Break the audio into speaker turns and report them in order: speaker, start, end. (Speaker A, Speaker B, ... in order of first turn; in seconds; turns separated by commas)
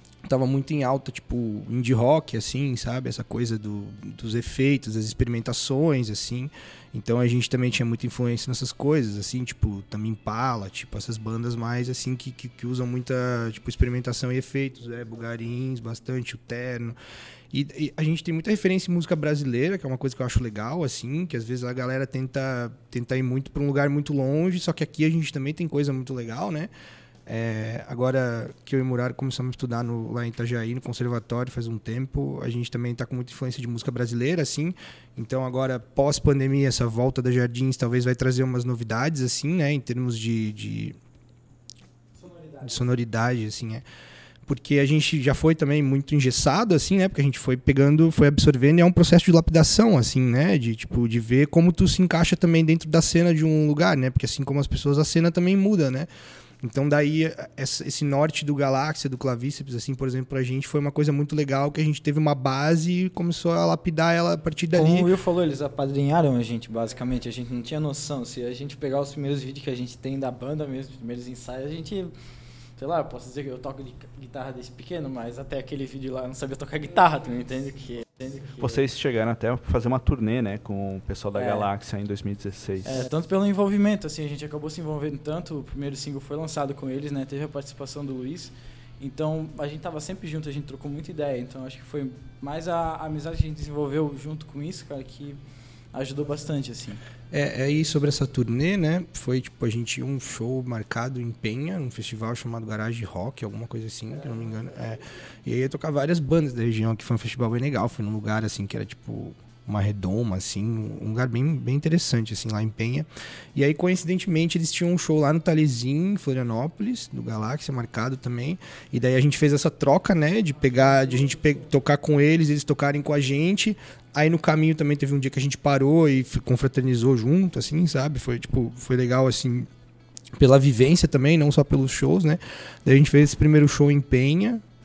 Speaker A: 0.2-16.9, Speaker A: 17.5-26.7, Speaker A: 27.2-41.0, Speaker B: 42.1-42.9, Speaker A: 42.6-43.8, Speaker A: 44.4-56.1, Speaker A: 56.6-65.1, Speaker B: 64.7-72.1, Speaker B: 72.8-78.8, Speaker C: 78.6-83.0, Speaker B: 81.3-81.7, Speaker B: 82.8-95.4, Speaker B: 95.9-97.0, Speaker A: 97.3-129.7, Speaker A: 130.3-134.6